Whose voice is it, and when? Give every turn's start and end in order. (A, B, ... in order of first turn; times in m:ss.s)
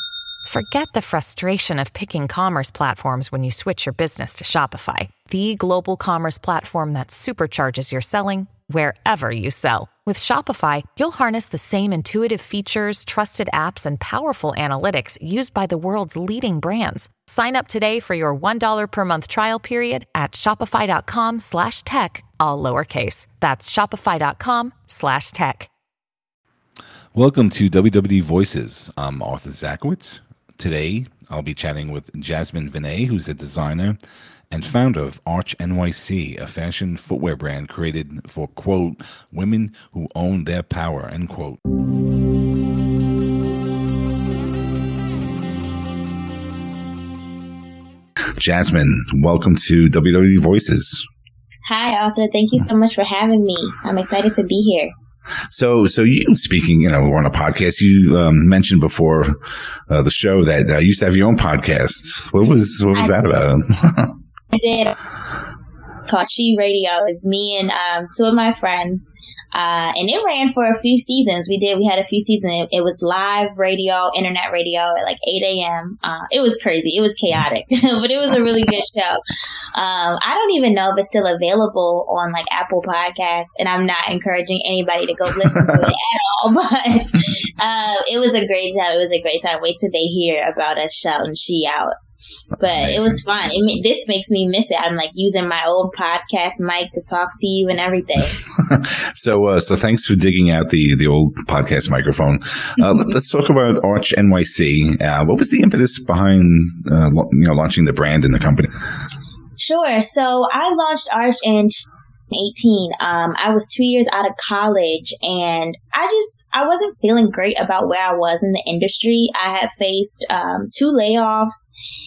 0:00.4-0:25.7 A
0:27.1-0:34.0 B
0:34.5-0:41.6 B
0:48.4-0:51.0 B
0:51.6-0:54.9 C
0:55.5-1:04.2 B
1:04.5-1:05.0 C
1:06.0-1:19.2 C
1:19.7-1:31.9 C
1:32.6-1:38.4 C
1:32.7-1:33.2 B
1:38.5-1:48.7 B
1:49.6-2:01.7 C